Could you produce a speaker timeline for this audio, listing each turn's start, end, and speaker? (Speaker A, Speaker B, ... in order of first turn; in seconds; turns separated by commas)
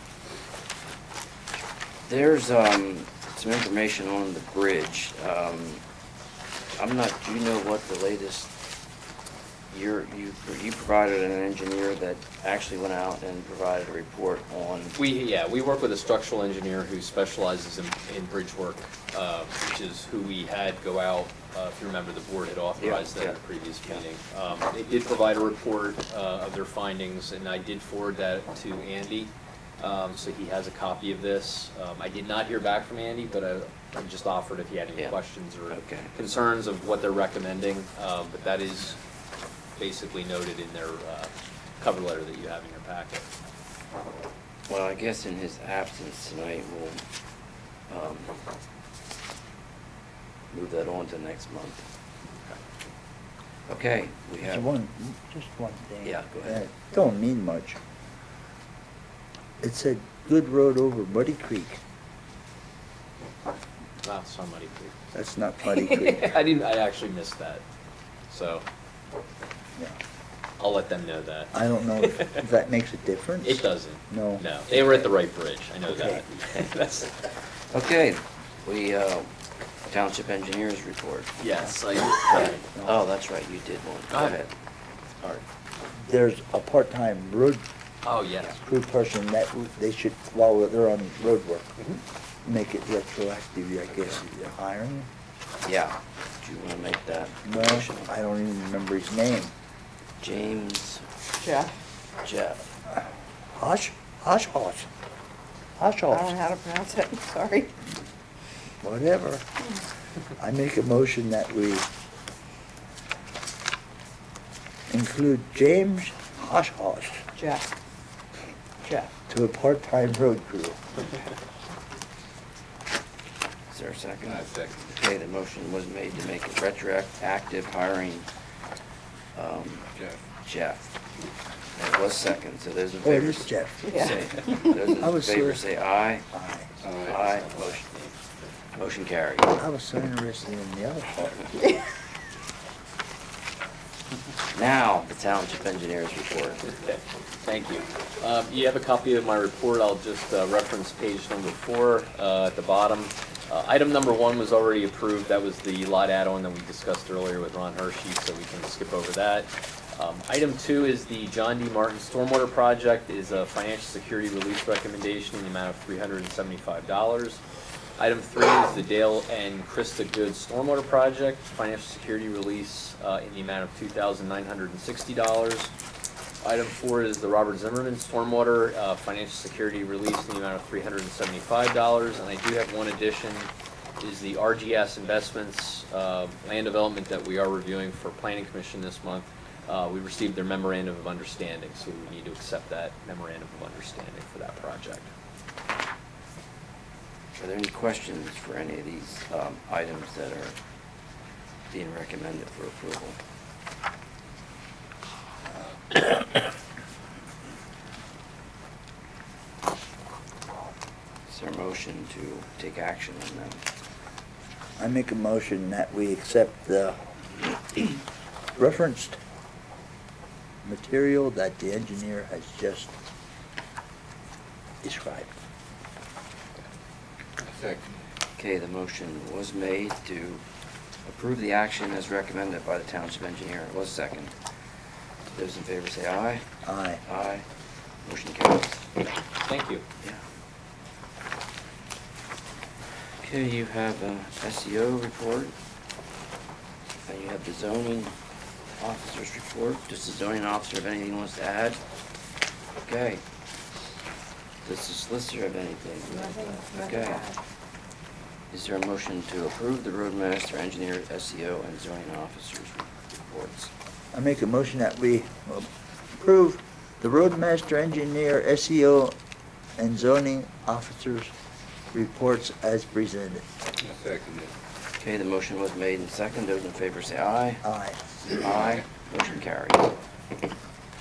Speaker A: 2.1-5.8, Speaker A: 6.7-8.5, Speaker A: 9.7-14.9, Speaker B: 14.9-39.0, Speaker A: 22.8-24.0, Speaker A: 35.7-36.1, Speaker B: 39.8-43.3, Speaker A: 44.7-47.0, Speaker A: 47.9-48.3, Speaker A: 50.5-51.8, Speaker A: 53.7-54.7, Speaker C: 54.4-57.8, Speaker A: 56.0-56.6, Speaker C: 59.6-61.8, Speaker B: 64.0-64.9, Speaker C: 65.1-66.3, Speaker B: 65.7-67.6, Speaker B: 68.3-68.6, Speaker B: 70.6-72.4, Speaker C: 71.5-75.1, Speaker B: 73.4-77.2, Speaker C: 75.9-76.2, Speaker A: 77.7-79.3, Speaker A: 79.9-81.4, Speaker B: 81.4-82.6, Speaker A: 82.3-84.5, Speaker B: 84.1-84.4, Speaker C: 86.0-87.6, Speaker B: 88.0-88.5, Speaker C: 88.6-91.8, Speaker C: 92.4-95.1, Speaker A: 95.6-98.1, Speaker C: 97.4-99.5, Speaker A: 100.2-101.0, Speaker D: 101.4-101.7, Speaker A: 102.2-102.7, Speaker C: 103.5-104.9, Speaker C: 105.8-106.3, Speaker D: 106.1-107.7, Speaker C: 108.8-109.5, Speaker C: 110.4-111.9, Speaker C: 114.9-117.2, Speaker D: 117.3-117.7, Speaker D: 118.8-119.1, Speaker C: 119.3-120.8, Speaker A: 123.7-128.2, Speaker E: 124.2-124.9, Speaker A: 129.3-129.8, Speaker E: 129.9-130.2, Speaker A: 130.4-130.9, Speaker A: 131.7-136.3, Speaker C: 133.0-134.2, Speaker D: 133.9-134.1, Speaker C: 134.9-135.7, Speaker C: 136.3-136.8, Speaker E: 136.8-137.2, Speaker A: 137.0-137.8, Speaker B: 137.4-138.1, Speaker A: 138.8-139.5, Speaker C: 139.6-141.5, Speaker A: 144.5-146.7, Speaker B: 146.8-167.4, Speaker B: 168.0-175.7, Speaker B: 176.4-195.1, Speaker A: 197.3-200.6, Speaker A: 201.7-203.2, Speaker A: 211.3-213.6, Speaker C: 214.8-217.0, Speaker C: 218.5-219.2, Speaker C: 220.6-222.9, Speaker C: 224.8-225.4, Speaker E: 227.4-228.0, Speaker A: 228.4-230.4, Speaker A: 231.0-234.3, Speaker A: 235.3-236.5, Speaker C: 236.6-237.0, Speaker A: 237.0-237.4, Speaker A: 238.0-238.9, Speaker B: 239.4-239.8, Speaker A: 243.2-245.5, Speaker A: 247.1-248.1, Speaker A: 248.8-251.8, Speaker A: 252.8-253.2, Speaker A: 254.6-257.3, Speaker D: 256.2-257.4, Speaker A: 258.5-263.7, Speaker C: 264.1-269.1, Speaker C: 269.8-271.3, Speaker C: 271.9-273.4, Speaker E: 273.8-274.5, Speaker A: 275.0-277.6, Speaker C: 277.6-278.0, Speaker A: 278.2-279.9